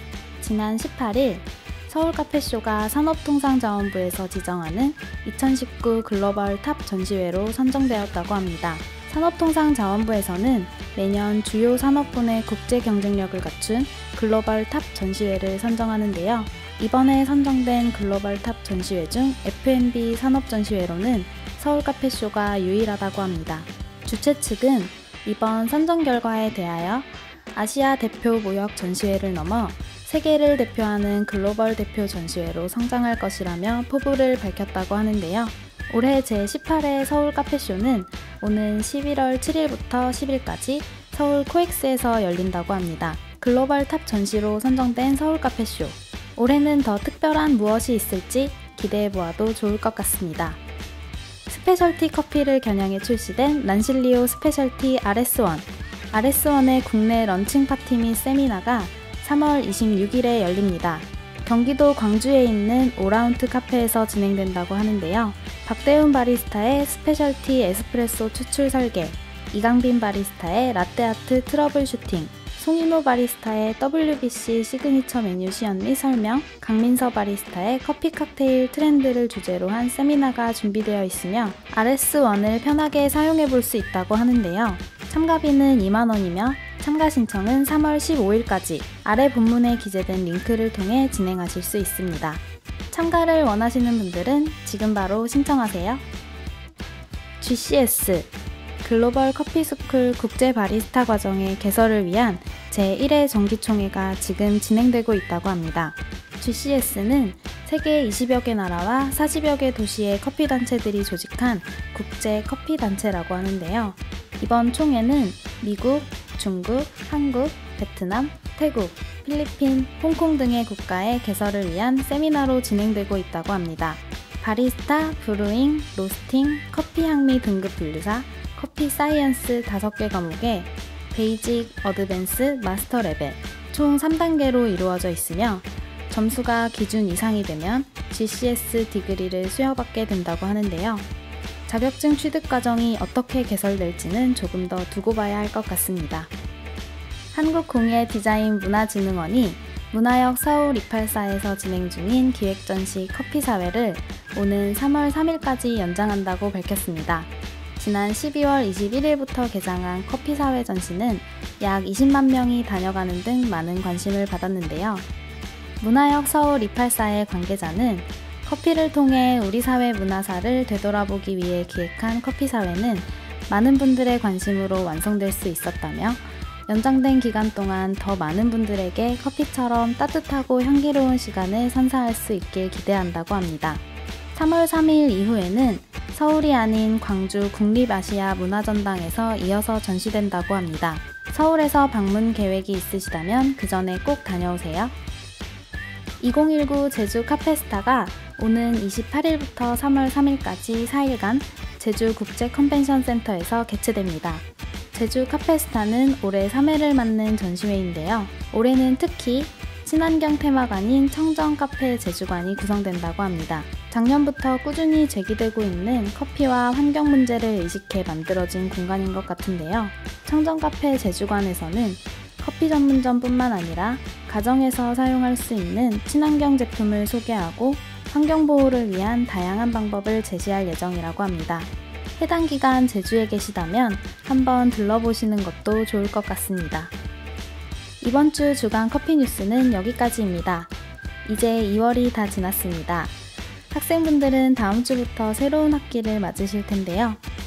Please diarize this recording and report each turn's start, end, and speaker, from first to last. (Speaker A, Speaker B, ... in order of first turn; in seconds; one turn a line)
Speaker A: 0.4-50.6
Speaker A: 51.5-96.0
Speaker A: 97.4-98.3
Speaker A: 98.8-141.1
Speaker A: 141.7-146.3
Speaker A: 147.3-165.0
Speaker A: 165.8-183.8
Speaker A: 184.3-194.9
Speaker A: 196.2-236.9
Speaker A: 238.0-240.7
Speaker A: 241.2-243.1
Speaker A: 243.7-247.2